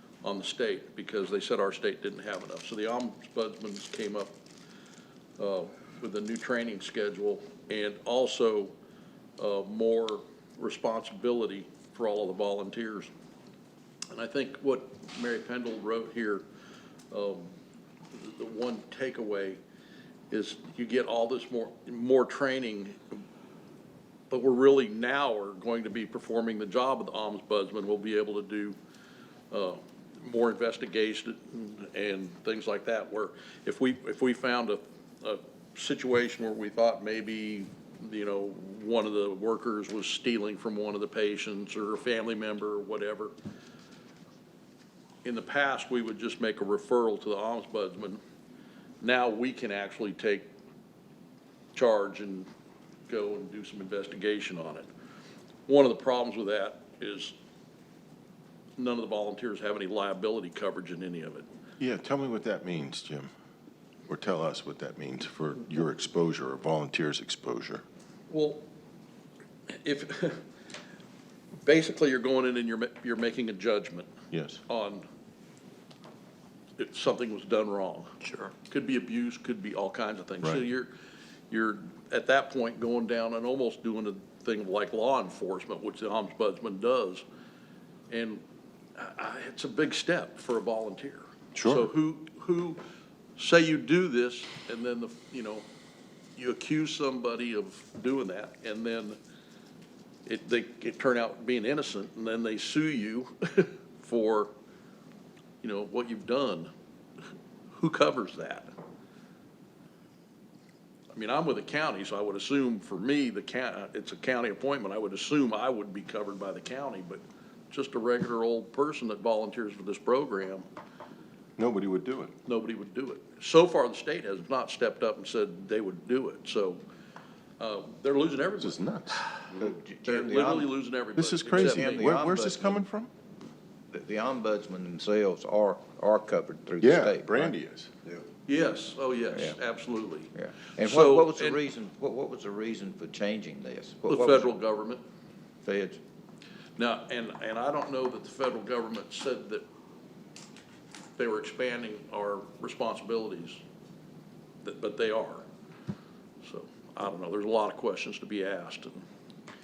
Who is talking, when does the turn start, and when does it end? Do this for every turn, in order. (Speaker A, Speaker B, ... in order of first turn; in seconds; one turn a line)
Speaker A: 0.2-4.3
Speaker A: 5.4-8.7
Speaker A: 9.4-13.1
Speaker A: 14.1-16.4
Speaker A: 17.1-17.5
Speaker A: 18.1-19.6
Speaker A: 20.3-23.1
Speaker A: 24.3-28.8
Speaker A: 29.5-43.3
Speaker A: 45.2-48.2
Speaker A: 49.0-50.5
Speaker A: 51.7-52.5
Speaker A: 53.1-54.9
Speaker A: 55.7-57.4
Speaker A: 58.8-61.5
Speaker B: 61.8-63.3
Speaker B: 64.1-67.8
Speaker A: 68.3-68.6
Speaker A: 69.8-70.4
Speaker A: 71.6-74.1
Speaker B: 74.3-74.6
Speaker A: 74.7-75.0
Speaker A: 76.8-78.2
Speaker A: 78.7-80.9
Speaker A: 81.5-87.2
Speaker A: 88.1-88.4
Speaker A: 89.0-92.8
Speaker B: 91.5-91.9
Speaker A: 93.4-95.7
Speaker A: 96.4-99.2
Speaker A: 100.3-104.5
Speaker A: 105.6-106.7
Speaker A: 107.8-108.7
Speaker A: 111.1-120.7
Speaker B: 121.6-122.3
Speaker A: 122.5-126.8
Speaker A: 127.6-132.1
Speaker B: 128.6-129.2
Speaker C: 129.5-130.7
Speaker B: 131.2-133.1
Speaker C: 131.5-132.9
Speaker C: 133.9-137.6
Speaker B: 136.8-137.9
Speaker A: 138.5-141.6
Speaker C: 139.3-139.6
Speaker C: 140.4-144.5
Speaker A: 144.1-145.0
Speaker C: 145.6-146.0
Speaker A: 146.8-149.7
Speaker A: 151.2-153.6
Speaker A: 154.6-155.5
Speaker A: 156.4-159.0